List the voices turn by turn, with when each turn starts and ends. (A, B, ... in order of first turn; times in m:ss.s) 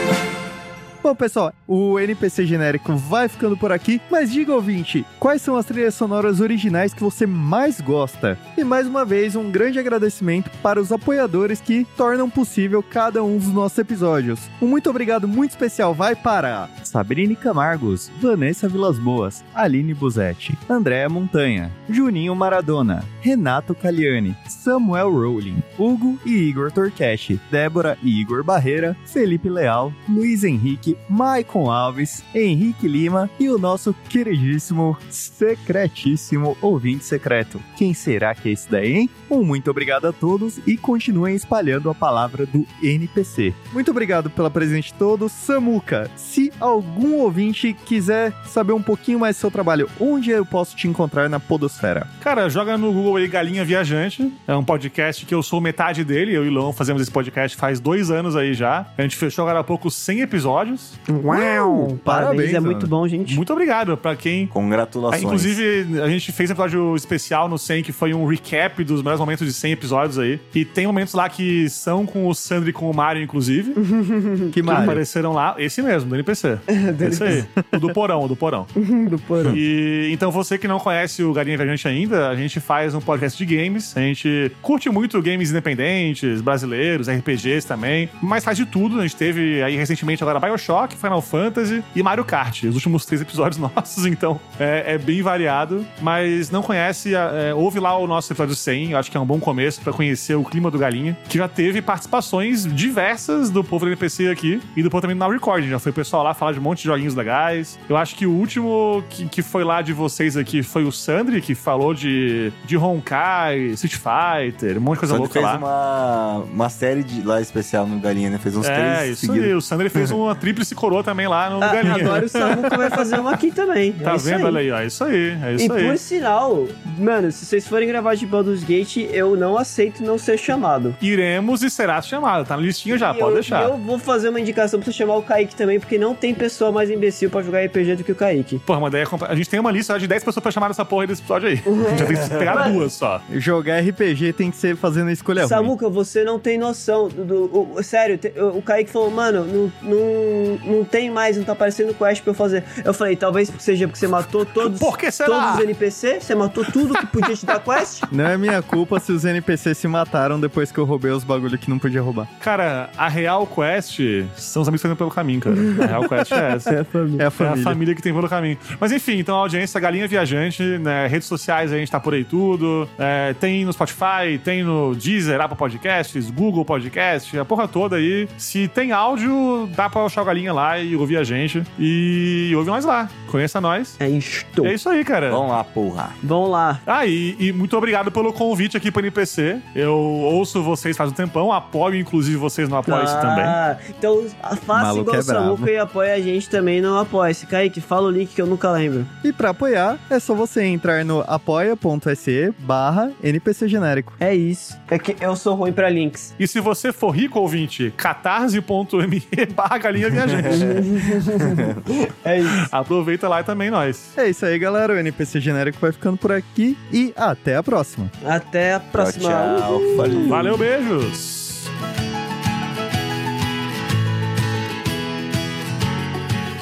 0:01.0-0:52.1 A
0:52.2-1:01.0 B
1:01.1-1:03.4 C
1:01.3-1:02.9 A
1:03.3-1:04.5 B
1:04.5-1:05.6 D
1:05.1-1:13.8 B
1:13.8-1:14.6 C
1:14.5-1:15.0 A
1:14.6-1:18.7 B
1:16.7-1:17.4 C
1:17.2-1:17.8 A
1:18.8-1:19.6 C
1:19.4-1:55.6 B
1:55.1-2:00.1 D
1:58.6-2:02.7 B
2:01.6-2:04.6 C
2:04.0-2:06.0 B
2:05.6-2:11.0 C
2:11.0-2:13.7 B
2:12.9-2:18.6 C
2:18.7-2:23.2 B
2:21.7-2:22.8 C
2:22.0-2:22.7 D
2:23.3-2:25.7 A
2:25.4-2:38.1 C
2:34.6-2:35.7 B
2:38.1-2:42.3 A
2:42.4-2:46.7 B
2:46.7-2:47.3 C
2:47.2-2:47.8 A
2:47.4-3:04.0 B
3:04.0-3:04.8 C
3:04.6-3:05.4 B
3:05.3-3:06.2 D
3:06.2-3:06.8 C
3:06.9-3:13.6 B
3:12.9-3:19.1 C
3:14.7-3:15.7 A
3:19.2-3:24.2 A
3:24.2-3:26.3 C
3:26.4-3:30.8 B
3:30.5-3:32.7 C
3:32.6-3:34.1 B
3:34.2-3:38.1 A
3:38.2-3:40.3 C
3:39.0-3:40.5 D
3:40.2-3:41.7 B